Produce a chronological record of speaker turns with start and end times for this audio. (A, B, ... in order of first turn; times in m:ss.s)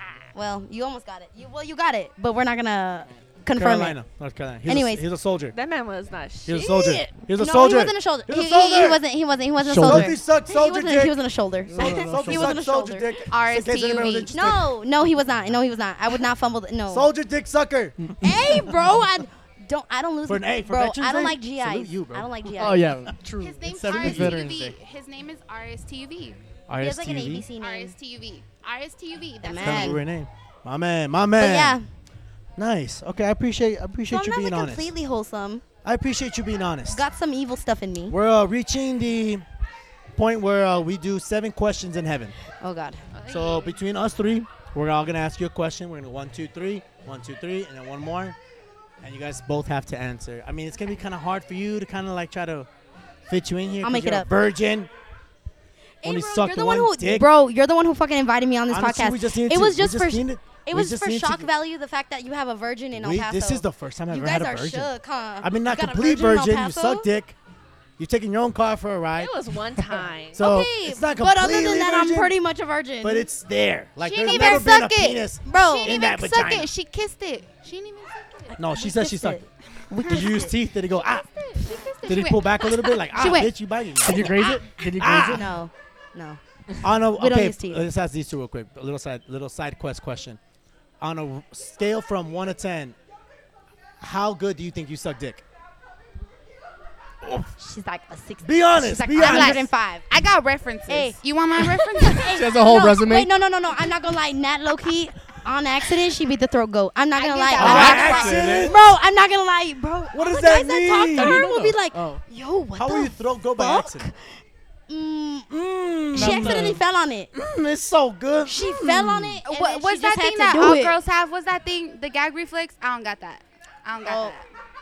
0:00.3-0:04.0 A
0:03.5-0:05.6 B
0:04.7-0:05.0 A
0:05.5-0:07.1 C
0:06.4-0:09.0 B
0:06.7-0:13.1 A
0:09.6-0:10.2 D
0:09.8-0:11.2 B
0:11.7-0:12.6 D
0:11.7-0:14.7 B
0:13.3-0:14.4 E
0:14.3-0:17.1 A
0:16.9-0:18.2 B
0:18.2-0:22.9 A
0:20.3-0:23.1 B
0:22.6-0:24.8 D
0:23.4-0:26.4 E
0:23.9-0:24.4 B
0:26.7-0:27.5 B
0:26.8-0:28.0 A
0:27.6-0:30.0 E
0:29.4-0:30.0 A
0:29.6-0:31.8 B
0:31.4-0:31.9 A
0:32.6-0:34.9 B
0:34.1-0:35.6 A
0:35.8-0:37.0 B
0:36.9-0:38.2 A
0:38.1-0:39.4 B
0:40.1-0:42.4 B
0:42.6-0:43.0 A
0:43.1-0:43.8 E
0:43.3-0:48.4 B
0:49.0-0:52.7 B
0:53.3-0:54.9 B
0:53.8-0:54.3 A
0:56.0-1:07.1 A
0:56.0-0:57.3 B
0:58.7-1:01.5 B
1:03.0-1:07.4 B
1:08.0-1:09.3 B
1:09.2-1:10.4 C
1:10.3-1:12.4 B
1:10.4-1:13.3 A
1:13.0-1:16.7 B
1:14.0-1:18.6 E
1:14.2-1:14.7 A
1:15.4-1:16.0 A
1:18.5-1:20.5 A
1:18.6-1:19.4 B
1:20.0-1:23.5 E
1:20.0-1:21.3 B
1:22.1-1:24.4 B
1:24.0-1:25.5 D
1:24.4-1:26.4 A
1:25.0-1:25.5 B
1:26.8-1:30.4 B
1:27.1-1:27.8 A
1:31.0-1:33.0 B
1:34.0-1:35.4 B
1:37.6-1:40.0 A
1:38.4-1:39.7 B
1:39.2-1:42.4 E
1:40.9-1:55.6 A
1:42.2-1:43.3 D
1:47.2-1:48.3 E
1:47.6-1:48.7 D
1:47.6-1:48.8 B
1:50.1-1:51.4 B
1:51.1-1:52.2 D
1:52.8-1:54.1 B
1:55.5-1:56.8 B
1:56.1-1:57.3 A
1:56.1-1:56.8 D
1:57.3-1:59.4 B
1:58.4-2:01.0 A
1:59.4-2:04.4 E
2:04.0-2:04.4 A